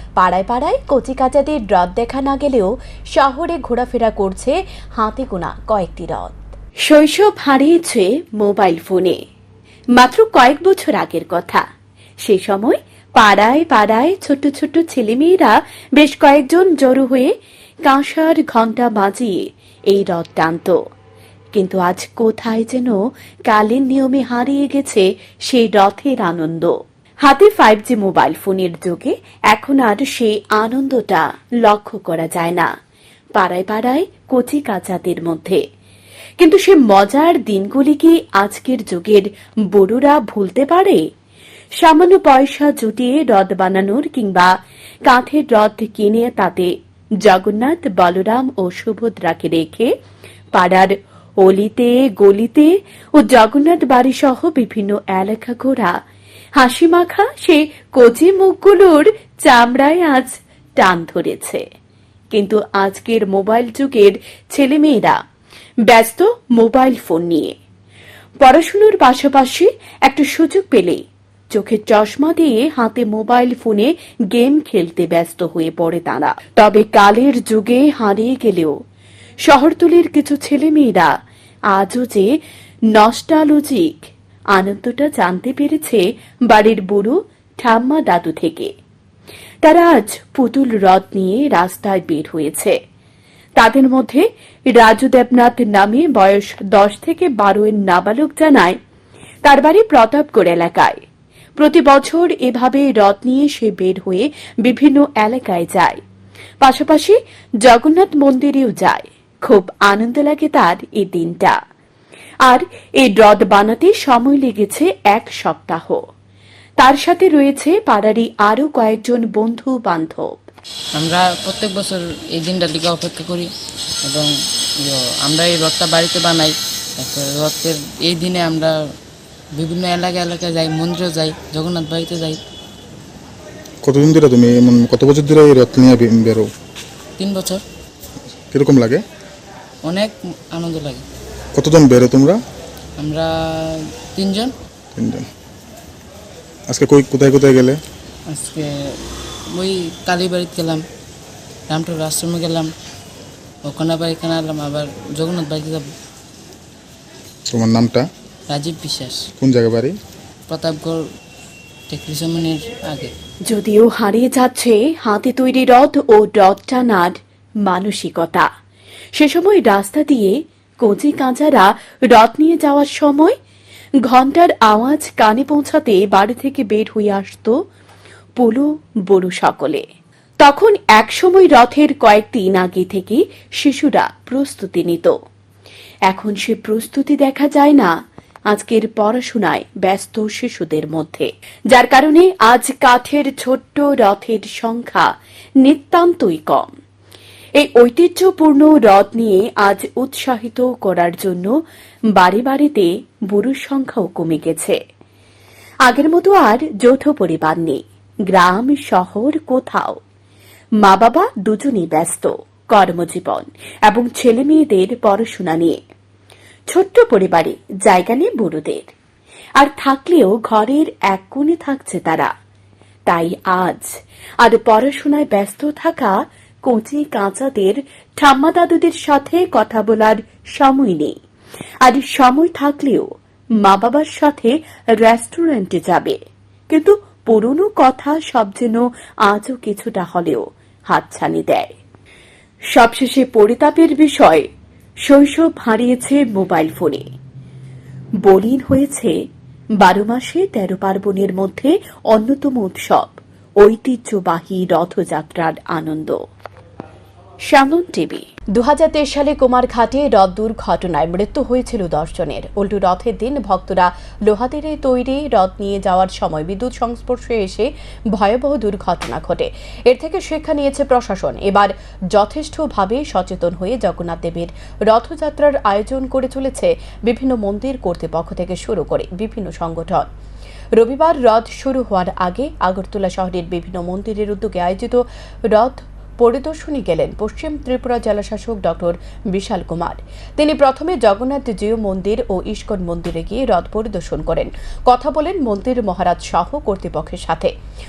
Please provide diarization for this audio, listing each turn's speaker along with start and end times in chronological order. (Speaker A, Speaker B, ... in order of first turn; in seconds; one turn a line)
Speaker A: 0.2-9.2
Speaker A: 10.0-11.6
Speaker A: 12.2-17.3
Speaker A: 17.9-20.8
Speaker A: 21.5-32.7
Speaker A: 33.4-35.6
Speaker A: 36.4-41.0
Speaker A: 41.8-44.5
Speaker A: 45.1-46.7
Speaker A: 47.2-49.9
Speaker A: 50.5-56.0
Speaker A: 56.6-61.6
Speaker A: 62.3-65.2
Speaker A: 65.9-67.5
Speaker A: 68.4-78.8
Speaker A: 79.5-81.1
Speaker A: 81.7-82.3
Speaker A: 82.9-88.7
Speaker A: 89.6-92.8
Speaker A: 93.6-98.8
Speaker A: 99.4-101.0
Speaker A: 101.6-106.0
Speaker A: 106.6-111.5
Speaker A: 112.5-116.0
Speaker A: 116.8-120.4
Speaker B: 121.0-123.5
Speaker B: 124.8-128.7
Speaker B: 129.6-132.4
Speaker C: 133.8-136.5
Speaker B: 137.2-137.6
Speaker C: 138.5-139.0
Speaker B: 139.8-141.0
Speaker C: 141.5-142.4
Speaker B: 143.0-143.2
Speaker B: 144.2-144.5
Speaker C: 144.9-145.2
Speaker C: 146.7-147.8
Speaker B: 148.3-148.7
Speaker B: 149.6-150.8
Speaker B: 151.7-152.7
Speaker B: 153.7-155.8
Speaker C: 157.5-158.1
Speaker B: 158.5-159.2
Speaker C: 159.4-159.9
Speaker B: 160.5-161.0
Speaker B: 161.9-163.1
Speaker A: 163.5-168.5
Speaker A: 169.2-173.3
Speaker A: 174.1-177.6
Speaker A: 178.4-179.8
Speaker A: 180.4-185.1
Speaker A: 186.1-187.9
Speaker A: 188.5-195.1
Speaker A: 195.6-196.7
Speaker A: 197.6-201.6
Speaker A: 202.2-204.8
Speaker A: 205.8-210.0
Speaker A: 210.8-215.8
Speaker A: 216.7-218.9
Speaker A: 219.6-222.3
Speaker A: 223.1-223.8
Speaker A: 224.4-231.2
Speaker A: 231.8-233.1
Speaker A: 233.6-236.2
Speaker A: 236.7-241.7
Speaker A: 242.7-244.4
Speaker A: 245.1-247.1
Speaker A: 248.2-249.1
Speaker A: 249.8-256.2
Speaker A: 257.5-280.1
Speaker A: 280.8-297.5